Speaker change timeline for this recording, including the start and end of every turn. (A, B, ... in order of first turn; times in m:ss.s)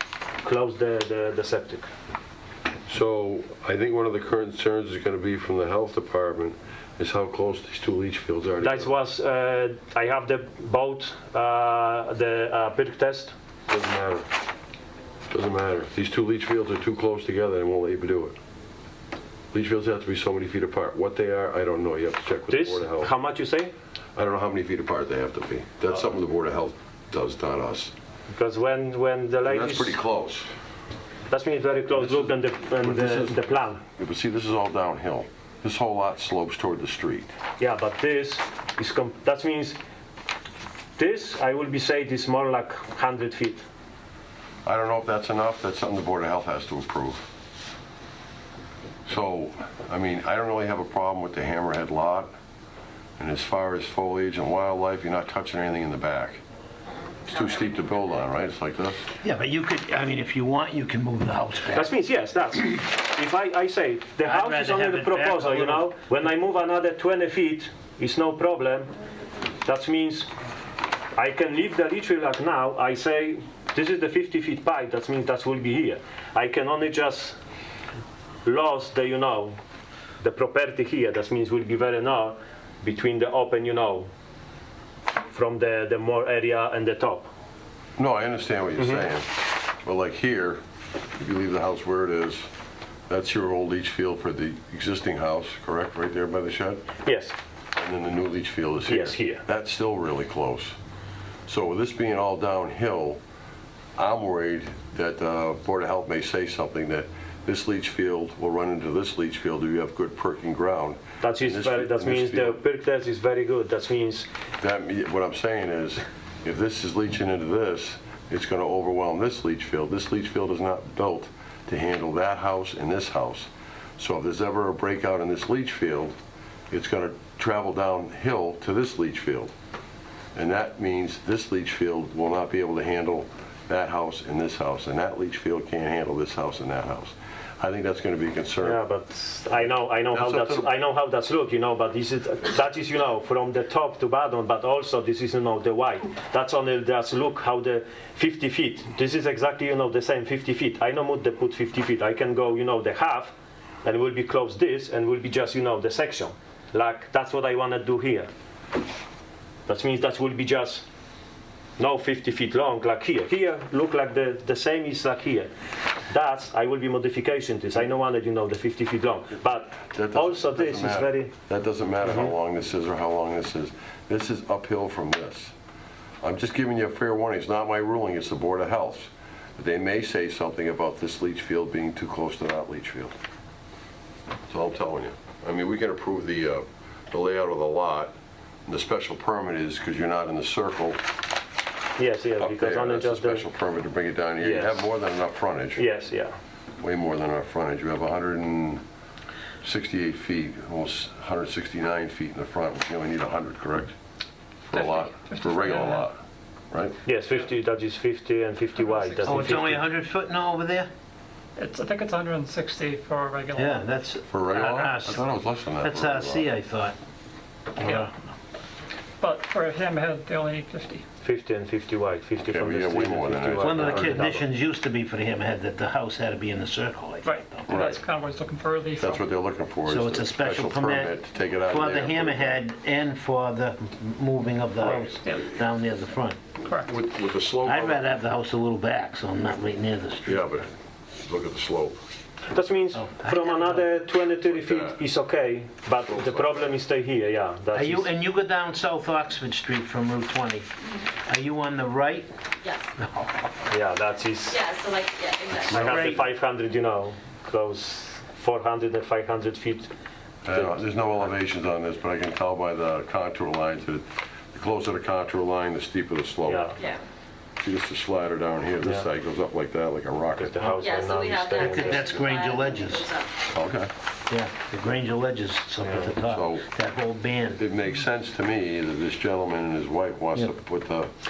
0:00.4-0:01.9 A
0:02.9-0:08.9 B
0:08.6-0:13.4 A
0:13.7-0:14.3 B
0:15.3-0:18.4 B
0:19.5-0:23.1 B
0:22.5-0:23.7 A
0:24.2-0:27.9 B
0:28.3-0:30.0 A
0:29.4-0:30.5 B
0:31.3-0:33.8 A
0:32.0-0:37.3 B
0:37.6-0:39.8 A
0:41.0-0:43.6 A
0:44.6-0:47.3 B
0:49.1-0:52.3 B
0:53.2-0:56.4 B
0:57.3-0:59.1 B
0:59.2-1:01.9 C
1:01.7-1:08.9 A
1:04.2-1:05.9 C
1:09.6-1:10.3 A
1:11.2-1:17.4 A
1:18.4-1:19.6 A
1:20.2-1:24.1 A
1:25.3-1:27.3 A
1:28.0-1:30.6 B
1:28.8-1:29.0 A
1:31.2-1:32.5 B
1:33.1-1:36.9 B
1:37.0-1:37.3 A
1:37.8-1:40.8 B
1:38.9-1:39.4 A
1:41.5-1:43.2 B
1:44.0-1:52.6 B
1:51.2-1:54.3 A
1:54.6-2:06.2 B
2:06.7-2:09.5 B
2:10.4-2:18.8 B
2:18.6-2:38.3 A
2:19.5-2:20.7 B
2:39.7-2:40.9 A
2:41.8-2:45.5 A
2:46.1-2:51.3 A
2:49.9-2:55.5 B
2:52.0-2:52.3 A
2:56.2-3:03.2 B
3:04.5-3:08.1 B
3:08.7-3:11.0 B
3:12.0-3:13.5 A
3:12.4-3:15.8 B
3:14.4-3:14.9 A
3:15.8-3:16.4 A
3:16.8-3:18.8 B
3:19.6-3:24.0 B
3:24.7-3:26.2 B
3:24.7-3:26.1 D
3:26.7-3:27.0 B
3:27.0-3:29.8 A
3:28.8-3:29.6 D
3:29.2-3:30.9 C
3:31.6-3:33.9 D
3:33.6-3:35.3 C
3:34.3-3:36.5 B
3:35.8-3:37.0 C
3:37.8-3:38.1 D
3:37.8-3:38.1 C
3:39.2-3:41.0 D
3:41.2-3:44.5 A
3:42.4-3:44.3 B
3:43.6-3:47.7 C
3:47.2-3:49.2 D
3:47.7-3:48.0 B
3:49.0-3:52.6 B
3:49.9-3:56.4 C
3:54.8-3:55.5 D
3:54.9-3:55.3 B
3:56.6-3:57.0 D
3:56.7-3:58.0 B
3:57.6-4:00.6 C
4:00.3-4:00.7 B
4:01.2-4:02.0 B
4:02.5-4:08.1 A
4:02.9-4:03.8 C
4:04.4-4:05.0 B
4:06.0-4:06.7 B
4:07.7-4:10.7 C
4:11.3-4:12.3 C
4:12.6-4:12.9 E
4:13.0-4:13.4 C
4:13.7-4:14.6 A
4:14.5-4:16.1 E
4:15.7-4:16.2 C
4:15.7-4:19.9 A
4:20.4-4:26.7 B
4:20.5-4:20.8 A
4:26.4-4:26.8 A
4:27.6-4:30.9 B
4:28.8-4:29.1 A
4:30.4-4:32.2 A
4:30.8-4:33.3 E
4:31.6-4:33.1 C
4:33.5-4:33.9 B
4:34.3-4:37.6 C
4:36.2-4:36.7 B
4:37.6-4:41.1 B